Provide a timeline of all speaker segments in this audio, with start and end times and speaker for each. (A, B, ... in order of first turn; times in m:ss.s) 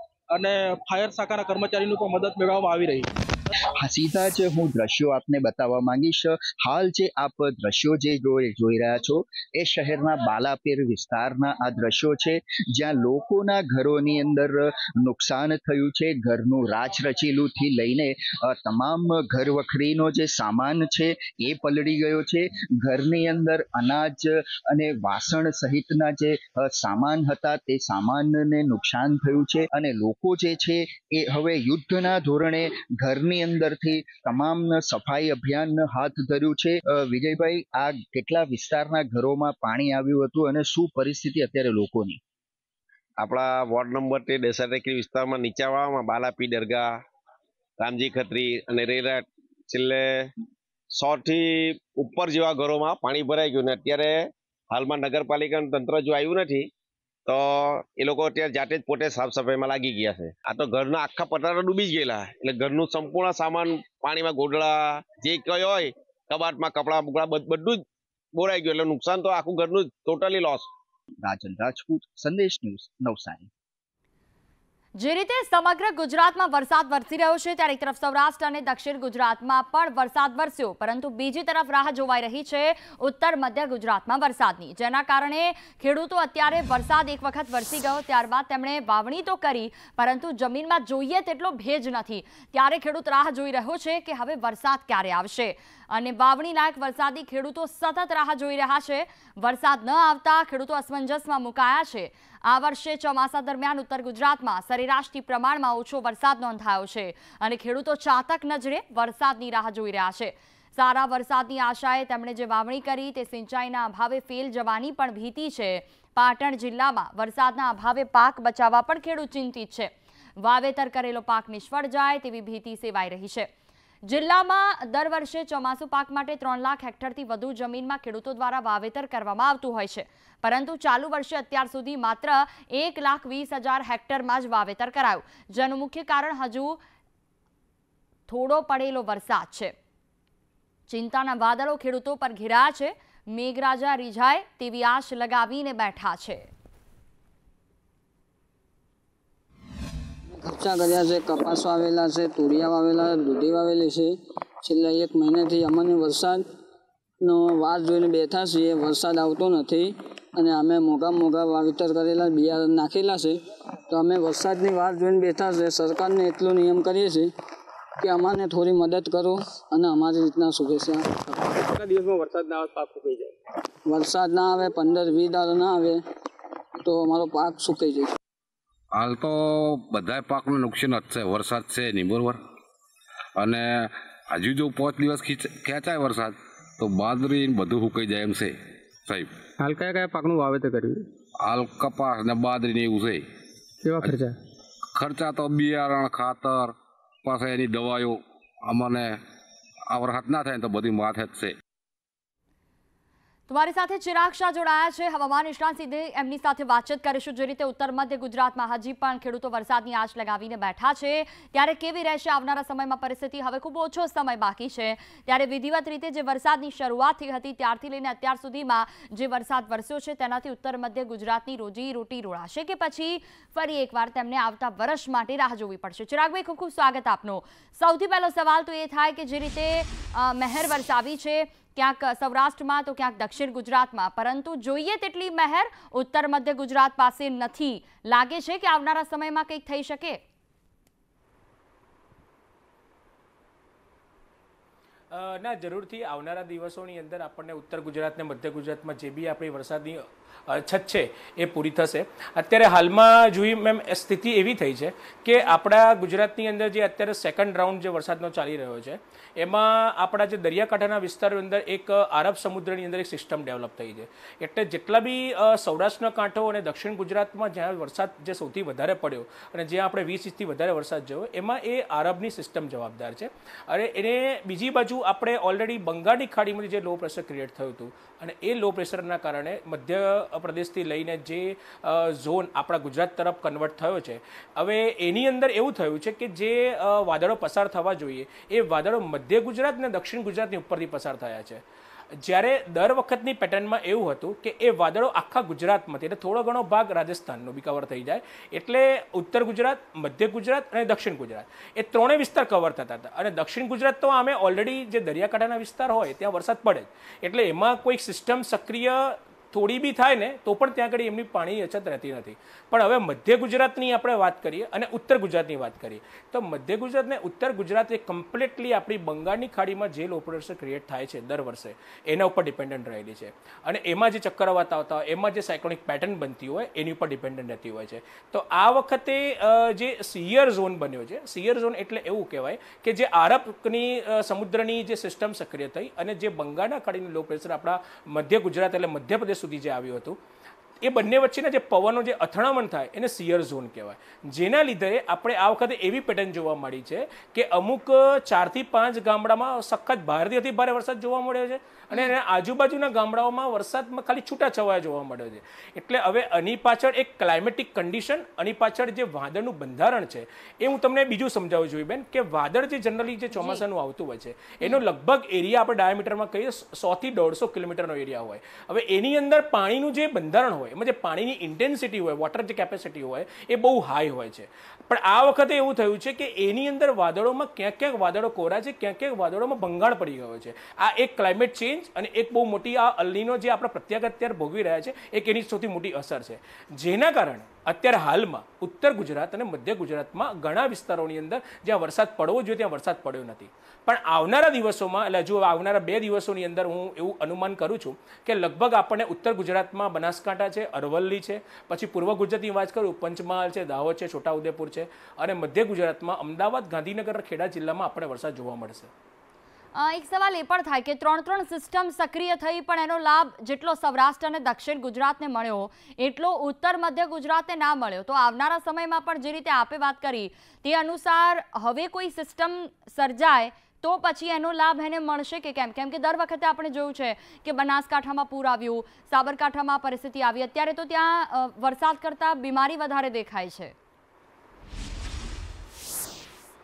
0:00.4-0:03.0 A
0:03.8-0:42.2 B
0:43.2-0:47.0 C
0:47.8-0:50.3 C
0:50.9-0:56.7 C
0:57.3-1:10.7 C
1:11.2-1:13.5 B
1:15.0-1:59.9 D
2:00.4-2:03.5 D
2:04.1-2:16.8 D
2:18.3-2:19.7 D
2:20.9-2:26.5 D
2:30.3-2:36.5 E
2:37.2-2:47.3 E
2:48.0-2:51.5 E
2:51.6-2:53.4 F
2:53.9-2:56.0 E
2:56.8-2:58.2 E
2:58.9-3:02.4 G
3:03.4-3:09.3 G
3:09.6-3:11.1 F
3:11.4-3:13.2 G
3:13.8-3:14.4 F
3:15.0-3:19.2 G
3:19.9-3:21.6 G
3:23.5-4:00.2 D
4:05.1-4:51.6 H
4:52.2-5:40.2 H
5:40.8-6:48.9 H
6:03.3-6:03.6 D
6:49.8-7:13.7 D